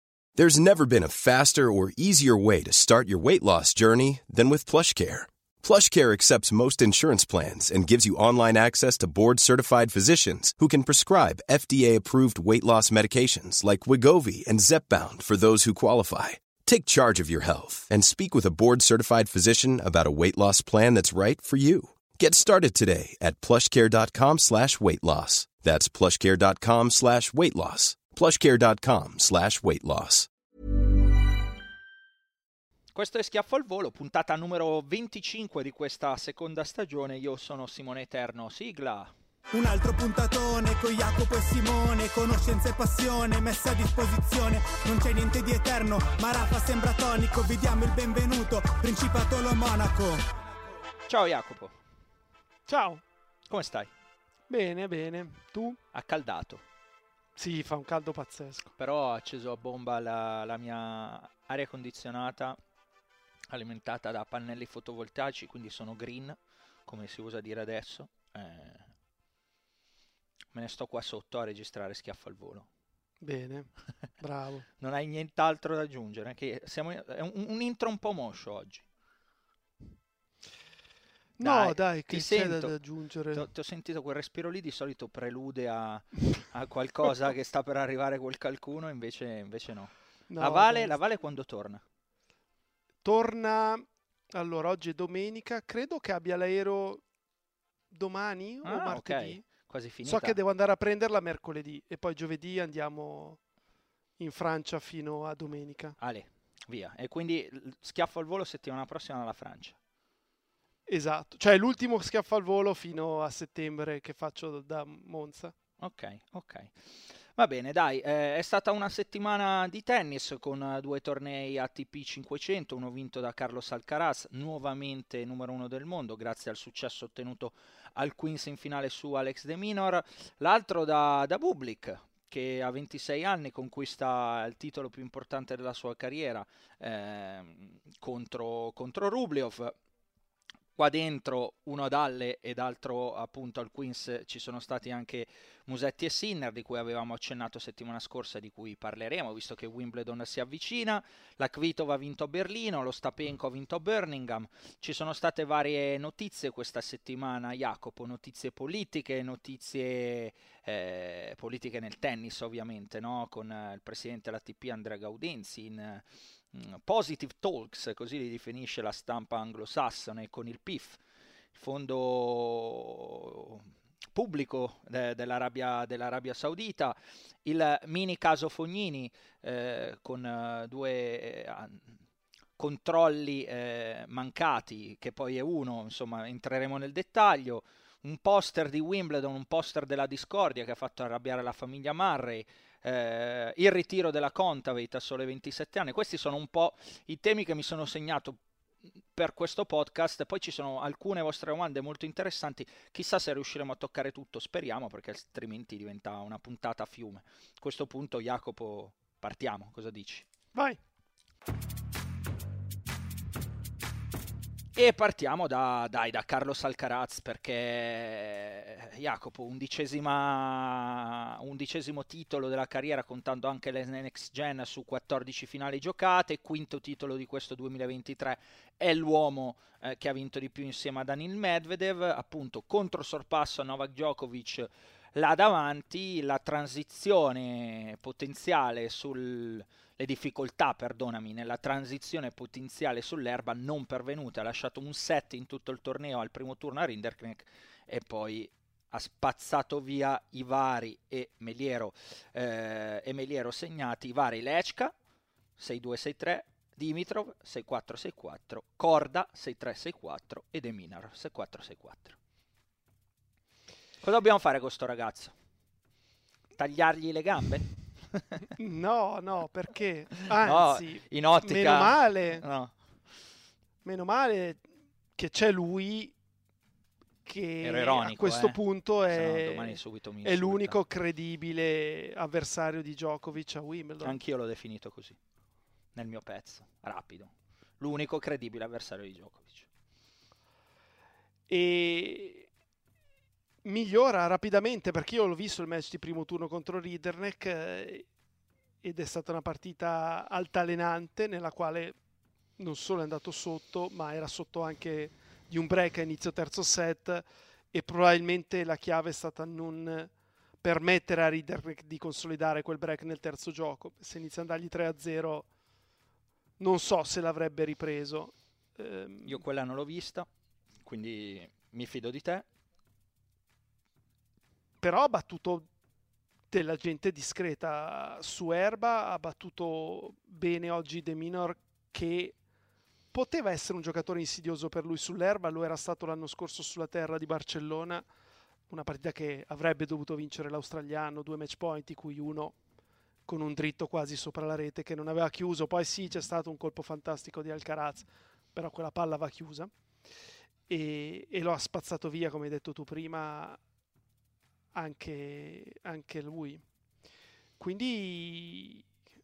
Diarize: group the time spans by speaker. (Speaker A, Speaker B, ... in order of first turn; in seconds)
Speaker A: 0.4-30.3
Speaker B: 32.9-39.1, 51.1-51.8, 53.5-53.9, 55.9-56.6, 58.8-62.6, 63.5-68.9, 70.5-72.7, 74.8-78.8, 81.4-82.7, 83.3-91.8, 98.6-100.4, 106.0-109.8, 115.8-139.7, 140.8-171.0, 171.5-181.9, 182.6-198.4, 199.1-210.2, 214.7-254.9, 255.6-262.1, 264.0-265.3, 266.6-268.5, 270.3-272.7, 277.6-280.8, 284.0-285.2, 285.9-289.7, 319.2-320.3, 320.8-322.4
Speaker C: 39.5-50.2
Speaker D: 52.7-53.0, 54.5-55.8, 57.4-58.7, 73.2-74.6, 81.4-83.4, 90.3-90.9, 93.0-97.0, 97.9-99.5, 100.0-103.4, 104.2-106.0, 110.9-115.5, 268.6-272.4, 273.8-274.6, 275.1-276.1, 277.2-284.2, 291.5-292.5, 293.6-298.1, 298.8-302.0, 302.6-310.1, 310.6-315.5, 316.6-319.4, 324.8-325.7, 326.5-332.4, 333.1-338.1, 338.7-342.6, 343.2-349.7, 350.7-353.6, 354.7-356.6, 357.6-358.9